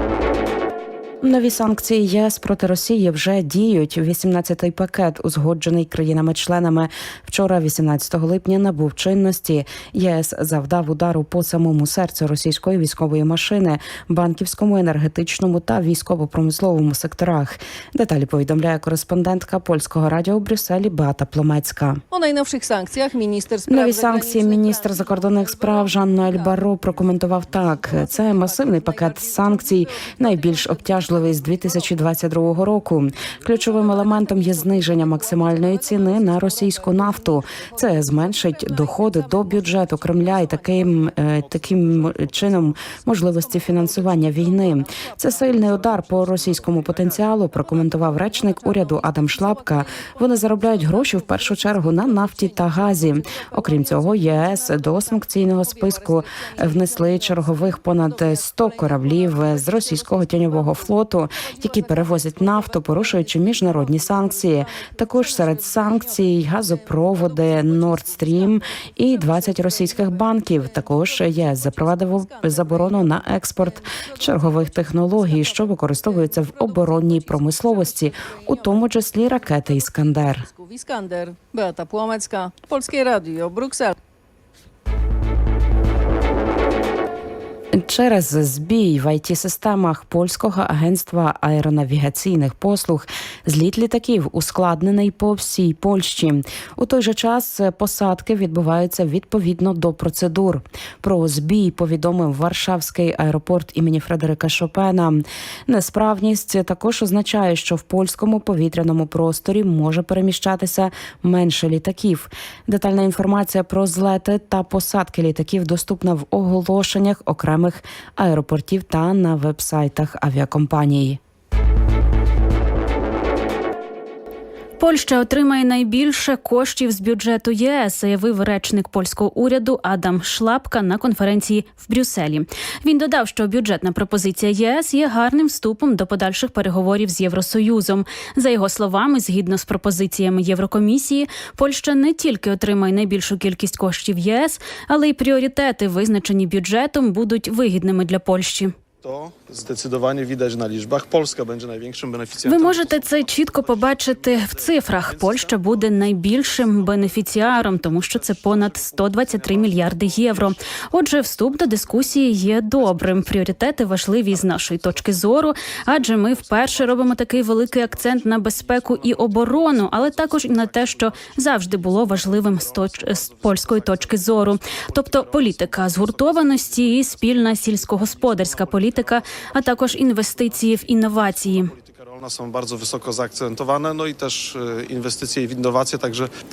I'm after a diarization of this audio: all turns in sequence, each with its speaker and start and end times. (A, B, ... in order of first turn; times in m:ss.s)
0:01.2-0:22.0 A
0:22.1-0:32.8 B
0:23.7-1:20.5 A
0:33.3-0:41.2 B
0:41.2-0:43.2 C
0:43.3-1:24.0 B
0:45.7-0:47.2 C
1:27.7-2:01.2 A
2:04.8-2:28.7 D
2:29.0-3:06.3 C
2:32.4-3:01.7 D